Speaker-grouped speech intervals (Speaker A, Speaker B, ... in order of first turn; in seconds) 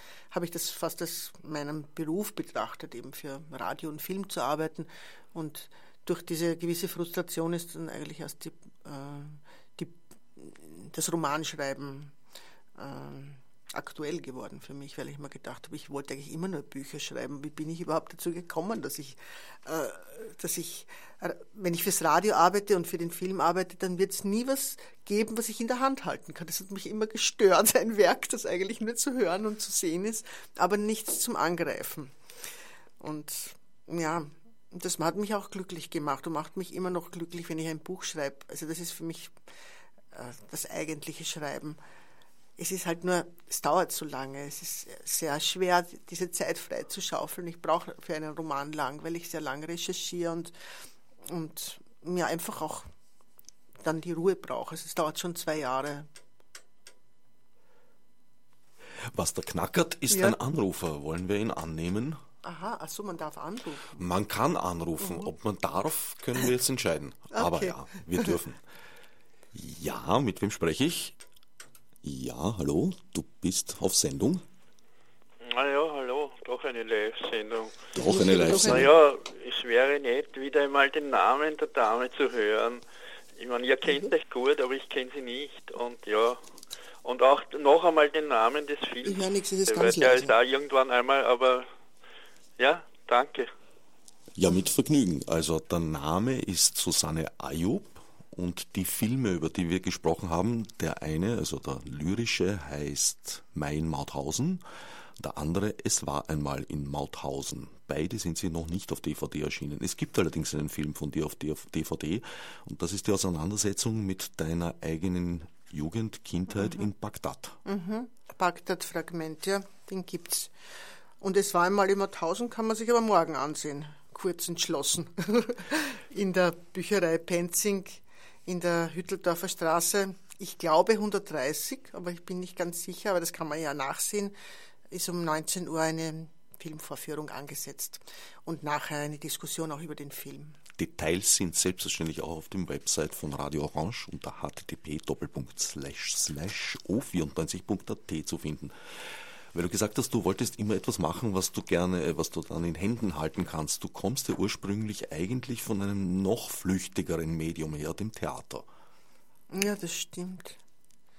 Speaker A: 0.3-12.1, 12.8-32.1, 33.0-39.3, 40.1-41.8, 42.6-50.5, 51.3-52.9, 53.8-56.1, 60.1-60.4, 62.4-64.0, 65.0-65.3, 67.3-68.4, 78.0-78.9, 89.0-90.3, 117.6-120.5, 121.2-134.3, 134.9-140.6, 159.5-160.6
Speaker B: 59.1-62.2, 64.0-68.6, 69.5-71.2, 72.0-74.4, 77.9-78.9, 94.3-104.6, 105.2-117.6, 140.8-158.6
Speaker C: 75.4-82.8, 83.4-86.4, 87.0-91.7, 92.6-93.5